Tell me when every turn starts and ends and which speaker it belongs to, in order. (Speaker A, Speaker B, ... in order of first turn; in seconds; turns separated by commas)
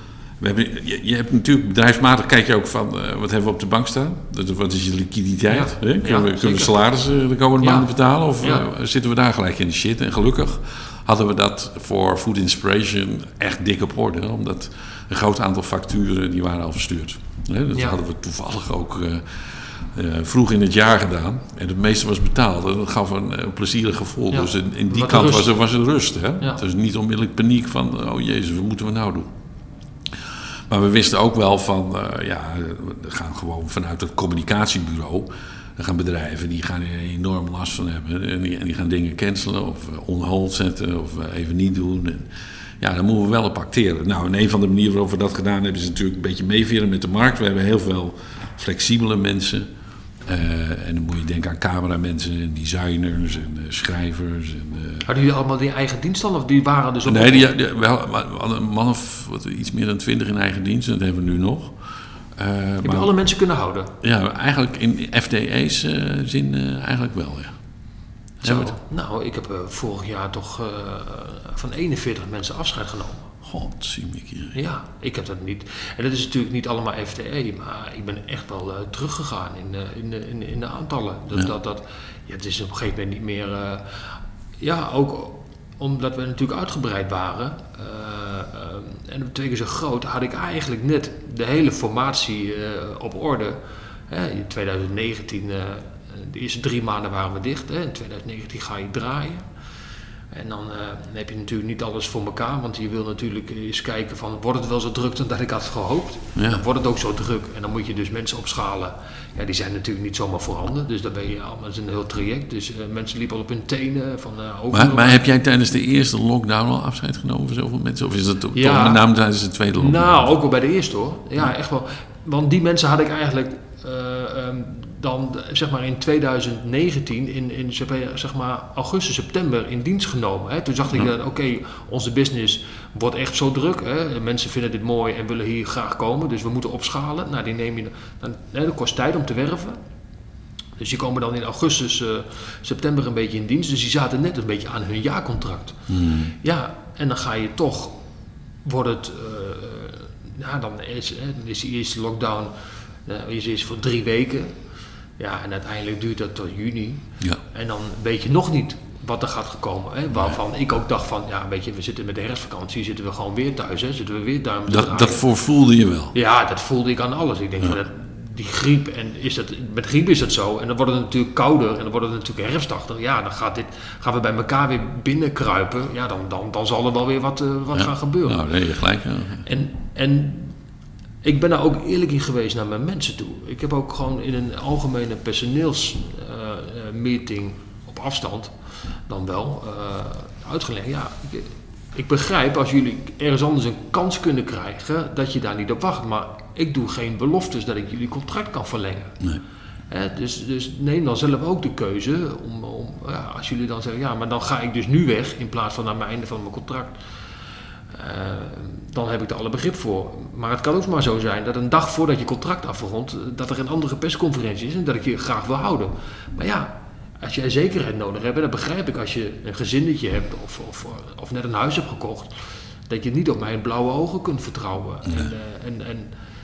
Speaker A: 0.4-29.3, Speaker B: 5.5-6.7, Speaker B: 7.6-8.7, Speaker B: 17.7-18.0, Speaker B: 24.3-25.5, Speaker A: 30.7-42.3, Speaker A: 42.8-49.7, Speaker A: 50.3-55.1, Speaker B: 55.0-57.5, Speaker A: 57.1-61.8, Speaker A: 62.4-63.1, Speaker B: 62.8-63.9, Speaker A: 64.0-67.5, Speaker B: 68.4-73.3, Speaker A: 68.4-68.8, Speaker A: 73.4-74.6, Speaker B: 74.5-99.5, Speaker B: 100.3-115.3, Speaker A: 106.3-106.6, Speaker A: 114.7-120.3, Speaker B: 118.5-119.0, Speaker B: 119.8-139.8, Speaker B: 140.8-145.8, Speaker A: 145.9-146.3, Speaker B: 146.4-148.0, Speaker B: 148.6-152.5, Speaker B: 153.1-154.5, Speaker B: 155.2-165.2, Speaker A: 164.7-166.1, Speaker B: 166.1-178.4, Speaker A: 177.7-179.5, Speaker B: 179.4-180.6, Speaker B: 181.2-199.2, Speaker B: 199.9-207.0, Speaker B: 207.9-222.3, Speaker B: 222.9-226.1, Speaker A: 225.1-225.3